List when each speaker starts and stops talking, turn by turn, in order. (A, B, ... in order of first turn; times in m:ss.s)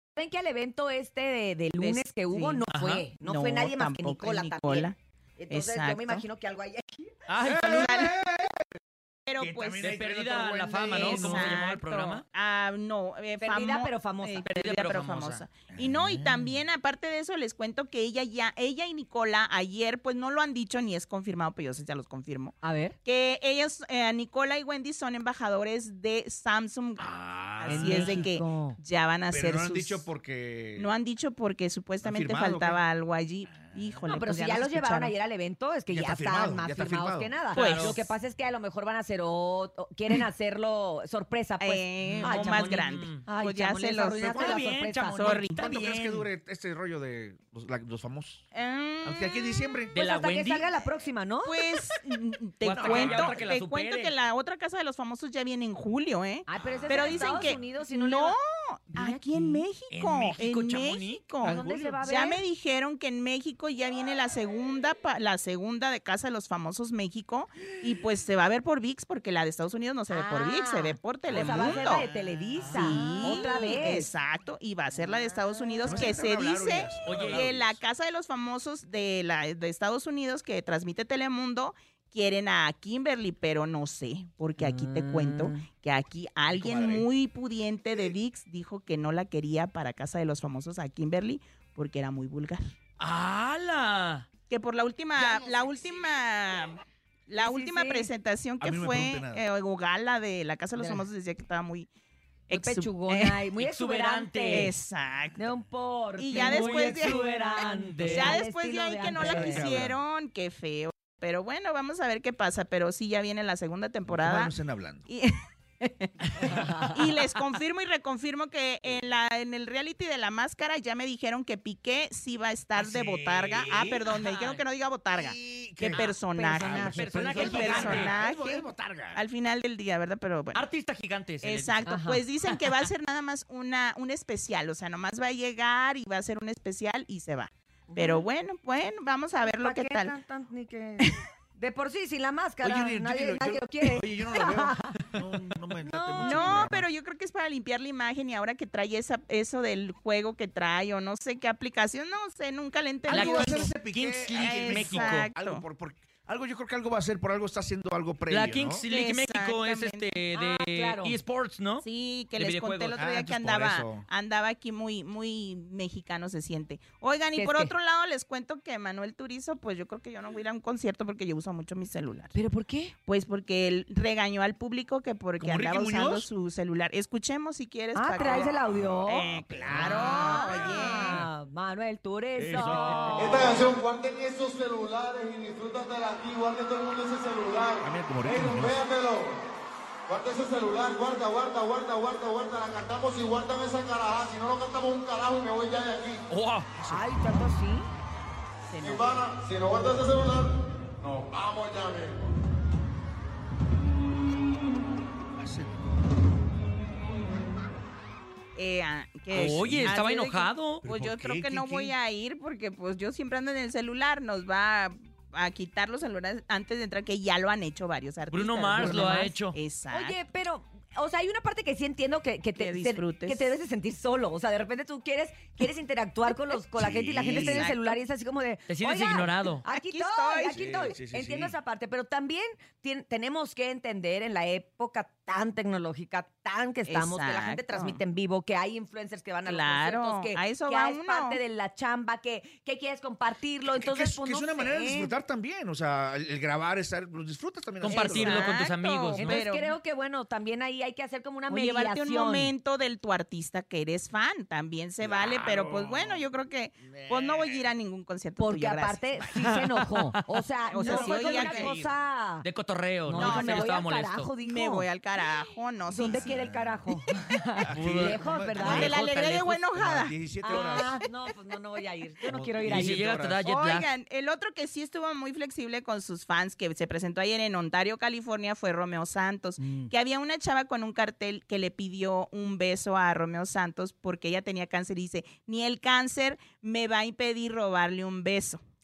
0:00.2-0:07.1 A
0:01.8-0:02.6 B
0:02.7-0:03.0 C
0:03.2-0:05.0 B
0:05.5-0:06.2 B
0:07.3-0:08.0 C
0:07.4-0:08.7 D
0:07.6-0:08.1 B
0:09.3-0:10.0 B
0:09.4-0:11.5 D
0:09.8-0:12.2 C
0:10.9-0:30.0 B
0:13.4-0:14.5 A
0:14.4-0:15.4 C
0:15.7-0:16.6 D
0:22.6-0:23.0 A
0:27.0-0:28.3 D
0:27.7-0:28.8 A
0:29.3-0:30.9 D
0:30.8-0:35.1 B
0:32.0-0:32.8 D
0:33.6-0:34.2 D
0:34.1-0:45.4 A
0:35.9-0:37.3 D
0:37.5-0:38.0 C
0:37.5-0:38.1 B
0:41.6-0:44.6 B
0:42.0-0:43.2 C
0:44.3-0:46.3 C
0:45.2-0:45.7 B
0:45.6-0:48.5 D
0:48.5-0:49.6 B
0:49.0-0:50.0 D
0:49.9-0:50.7 C
0:50.0-0:51.6 A
0:51.4-1:12.1 B
0:52.6-0:53.5 D
0:52.6-0:54.2 C
0:56.5-0:58.4 A
0:56.9-0:57.6 D
0:59.0-0:59.6 A
0:59.9-1:01.2 C
1:01.4-1:02.0 D
1:01.4-1:02.4 A
1:10.1-1:14.1 A
1:11.3-1:12.0 D
1:12.6-1:32.6 B
1:12.6-1:13.3 C
1:12.6-1:13.5 D
1:15.5-1:16.1 A
1:15.8-1:17.8 D
1:17.0-1:17.4 C
1:24.6-1:25.6 A
1:26.5-1:27.1 D
1:33.0-1:34.3 C
1:34.5-1:41.9 B
1:37.3-1:38.1 A
1:38.6-1:39.4 D
1:40.8-1:41.0 A
1:42.5-1:43.4 B
1:42.5-1:44.7 A
1:43.6-1:44.7 C
1:44.5-1:45.4 B
1:45.4-1:49.9 A
1:46.2-1:54.6 B
1:46.3-1:48.4 C
1:49.1-1:50.0 D
1:54.1-1:55.0 D
1:55.1-2:10.7 B
1:56.5-1:56.9 A
2:02.8-2:04.6 C
2:03.5-2:04.0 D
2:05.1-2:09.2 D
2:06.3-2:08.0 A
2:06.7-2:08.1 C
2:10.5-2:11.8 C
2:11.4-2:20.2 B
2:11.9-2:12.2 A
2:12.4-2:12.9 C
2:17.9-2:18.2 A
2:19.4-2:25.0 A
2:22.6-2:26.9 D
2:25.8-2:26.7 A
2:26.2-2:33.7 B
2:33.1-2:38.8 D
2:33.1-2:35.3 C
2:34.4-2:35.6 B
2:38.3-2:43.0 C
2:38.9-2:40.1 B
2:40.3-2:41.2 A
2:41.8-2:52.3 B
2:42.9-2:44.1 D
2:47.4-2:47.7 A
2:52.3-2:53.0 A
2:53.1-2:58.6 B
2:55.4-2:56.3 D
2:58.0-3:03.3 A
2:58.7-3:00.7 D
2:59.1-3:01.2 B
3:02.4-3:03.6 D
3:03.2-3:09.4 E
3:07.8-3:08.8 D
3:10.1-3:16.2 E
3:16.3-3:16.7 C
3:16.7-3:17.5 D
3:16.9-3:17.9 A
3:18.7-3:19.2 B
3:18.8-3:22.2 E
3:25.4-3:25.8 D
3:28.6-3:40.2 B
3:29.3-3:30.8 C
3:29.4-3:29.9 D
3:30.8-3:32.0 D
3:38.3-3:39.6 C
3:38.8-3:39.4 A
3:39.9-4:05.1 A
3:42.6-3:43.5 B
3:46.8-3:47.7 D
3:47.3-3:48.0 B
3:48.7-3:49.6 C
3:49.7-3:50.9 B
3:50.5-3:51.6 D
3:56.9-3:58.0 B
3:59.4-4:01.4 B
4:03.7-4:08.6 D
4:07.8-4:09.4 C
4:07.9-4:09.8 B
4:09.2-4:12.5 A
4:11.5-4:19.5 B
4:15.0-4:16.3 D
4:16.8-4:17.7 D
4:18.4-4:22.4 A
4:19.4-4:20.2 C
4:20.7-4:21.7 B
4:20.8-4:21.9 C
4:22.4-4:24.3 C
4:23.1-4:24.9 A
4:23.2-4:23.8 B
4:24.4-4:26.5 B
4:25.9-4:28.9 A
4:26.4-4:26.8 D
4:27.6-4:30.9 D
4:27.7-4:29.6 C
4:28.6-4:31.0 B
4:30.4-4:33.0 A
4:32.2-4:33.4 D
4:32.7-4:33.9 C
4:33.4-4:48.6 B
4:39.6-4:39.9 A